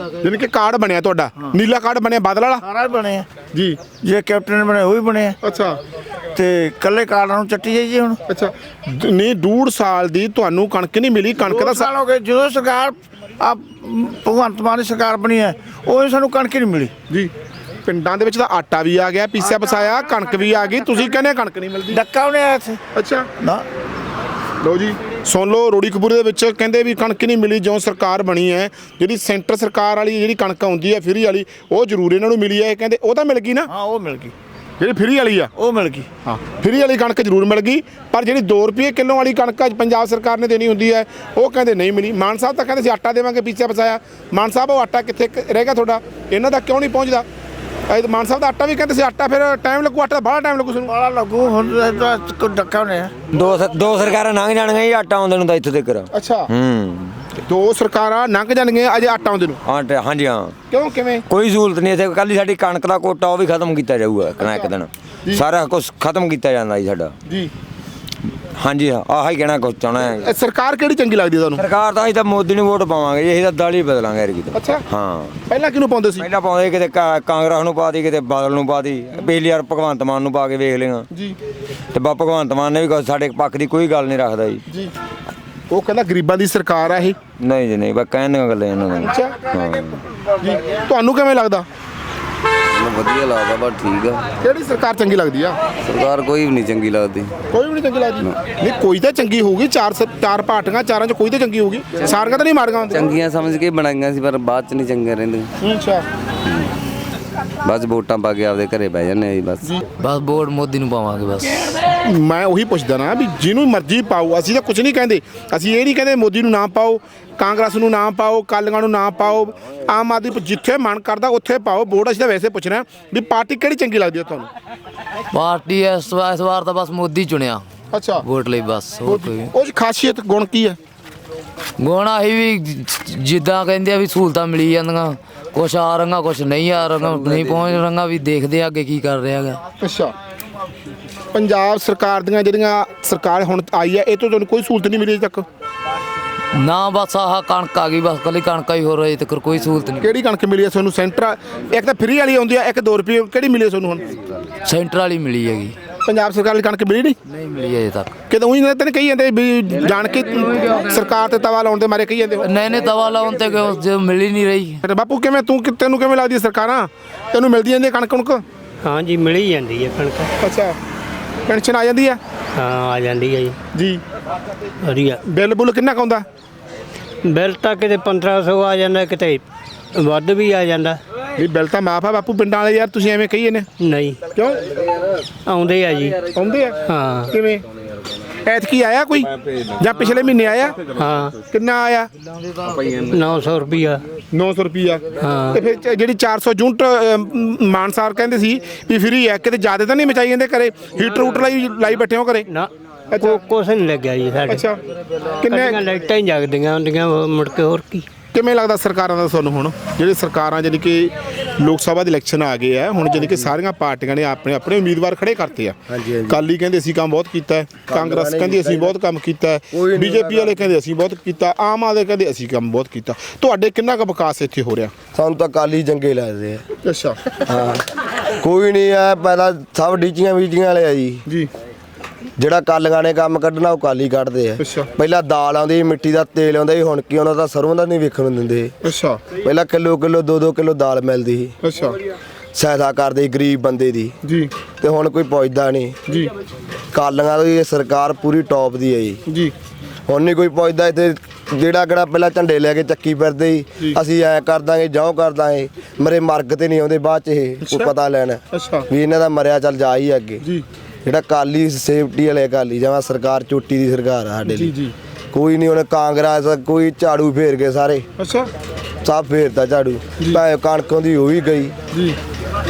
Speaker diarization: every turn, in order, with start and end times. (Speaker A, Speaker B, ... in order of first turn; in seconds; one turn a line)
Speaker A: 0.2-2.6
Speaker B: 2.7-3.3
Speaker A: 3.5-3.8
Speaker B: 4.0-5.3
Speaker A: 5.4-5.8
Speaker B: 6.3-8.2
Speaker A: 8.3-11.9
Speaker B: 11.5-16.9
Speaker A: 17.9-22.0
Speaker B: 21.9-22.8
Speaker A: 22.9-23.3
Speaker B: 23.4-23.6
Speaker A: 24.6-33.7
Speaker B: 33.7-34.3
Speaker A: 34.8-35.5
Speaker B: 35.6-36.0
Speaker A: 36.3-47.2
Speaker A: 47.9-50.9
Speaker B: 50.9-53.1
Speaker C: 53.3-57.2
Speaker A: 56.1-56.5
Speaker A: 57.5-59.6
Speaker C: 59.6-60.5
Speaker A: 60.7-61.2
Speaker C: 61.3-67.1
Speaker C: 68.6-70.3
Speaker A: 70.2-71.7
Speaker C: 71.6-75.3
Speaker A: 74.5-74.8
Speaker A: 75.5-76.3
Speaker C: 76.2-81.1
Speaker A: 81.1-81.4
Speaker C: 81.9-84.6
Speaker A: 85.7-87.2
Speaker C: 87.4-90.0
Speaker A: 89.0-89.4
Speaker A: 90.4-91.7
Speaker D: 92.7-94.3
Speaker A: 94.4-95.6
Speaker D: 95.8-97.3
Speaker A: 97.5-103.1
Speaker D: 102.9-105.5
Speaker A: 105.6-106.0
Speaker D: 107.6-109.8
Speaker E: 110.0-111.6
Speaker A: 112.0-124.5
Speaker E: 125.3-127.6
Speaker A: 127.9-128.2
Speaker E: 128.2-129.5
Speaker A: 129.0-130.8
Speaker E: 131.8-139.6
Speaker D: 137.2-137.5
Speaker A: 139.8-140.1
Speaker A: 141.3-145.4
Speaker E: 146.6-150.1
Speaker A: 150.0-154.0
Speaker E: 154.7-155.8
Speaker A: 156.1-157.2
Speaker E: 157.3-158.1
Speaker A: 158.3-162.5
Speaker E: 162.4-164.8
Speaker A: 164.8-168.4
Speaker F: 168.9-170.3
Speaker A: 170.4-170.8
Speaker A: 171.5-172.2
Speaker F: 172.6-173.6
Speaker A: 173.7-174.0
Speaker F: 174.9-175.2
Speaker A: 175.3-176.2
Speaker F: 177.3-179.4
Speaker F: 180.0-181.0
Speaker A: 181.4-183.7
Speaker F: 183.9-184.2
Speaker F: 185.5-186.2
Speaker A: 186.3-186.8
Speaker F: 186.9-187.3
Speaker A: 187.3-187.6
Speaker A: 188.5-190.8
Speaker F: 191.0-191.3
Speaker A: 191.5-192.1
Speaker F: 193.2-194.0
Speaker A: 194.3-202.4
Speaker A: 203.1-203.4
Speaker F: 203.3-204.5
Speaker A: 204.5-204.8
Speaker A: 205.4-205.8
Speaker F: 205.6-208.0
Speaker A: 208.3-215.8
Speaker G: 215.9-216.4
Speaker A: 216.3-224.9
Speaker G: 217.9-218.9
Speaker G: 219.7-220.6
Speaker G: 225.1-226.6
Speaker A: 226.8-227.2
Speaker G: 227.5-227.8
Speaker G: 228.4-231.2
Speaker G: 232.4-238.8
Speaker A: 234.6-234.9
Speaker A: 238.8-239.2
Speaker G: 239.3-241.5
Speaker A: 241.6-241.9
Speaker G: 242.6-244.2
Speaker G: 244.8-246.0
Speaker G: 246.9-249.2
Speaker G: 250.1-260.4
Speaker A: 257.6-257.9
Speaker A: 258.5-258.9
Speaker G: 261.1-264.7
Speaker A: 264.5-264.9
Speaker G: 265.3-268.1
Speaker A: 268.2-268.5
Speaker G: 269.0-271.8